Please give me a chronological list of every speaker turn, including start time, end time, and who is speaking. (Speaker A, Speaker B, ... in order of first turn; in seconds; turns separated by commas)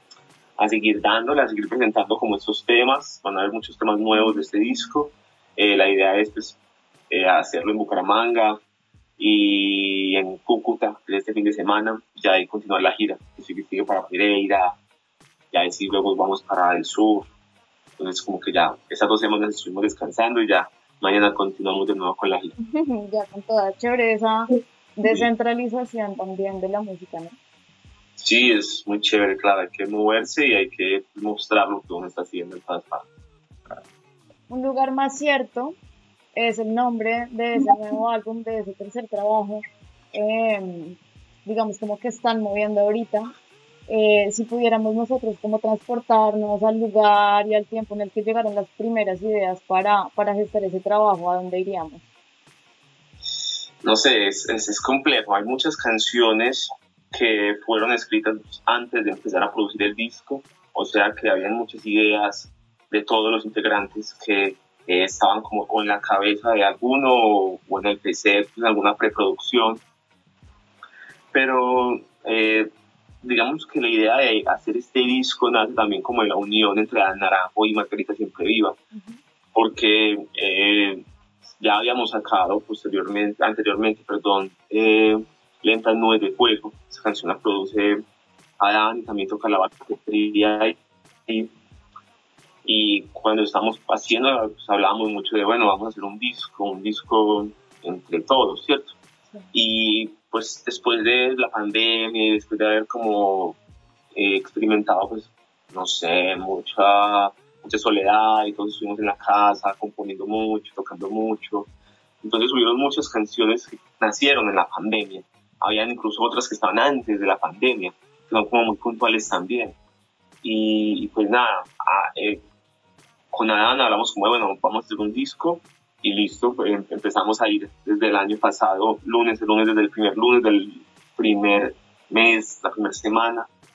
Speaker A: 0.6-6.6, Speaker A: 7.1-8.6, Speaker A: 9.2-14.8, Speaker A: 15.5-17.3, Speaker A: 18.0-22.5, Speaker B: 22.6-27.4, Speaker A: 28.2-33.1, Speaker B: 34.5-35.8, Speaker B: 36.4-39.6, Speaker B: 40.1-43.3, Speaker B: 43.9-52.0, Speaker A: 53.3-69.8, Speaker A: 71.3-72.7, Speaker A: 73.2-78.8, Speaker B: 78.9-79.2, Speaker A: 79.5-88.0, Speaker A: 88.6-91.5, Speaker A: 92.6-99.0, Speaker A: 99.5-103.6, Speaker A: 104.1-111.7, Speaker A: 112.2-119.8, Speaker A: 120.4-122.4, Speaker A: 123.3-133.5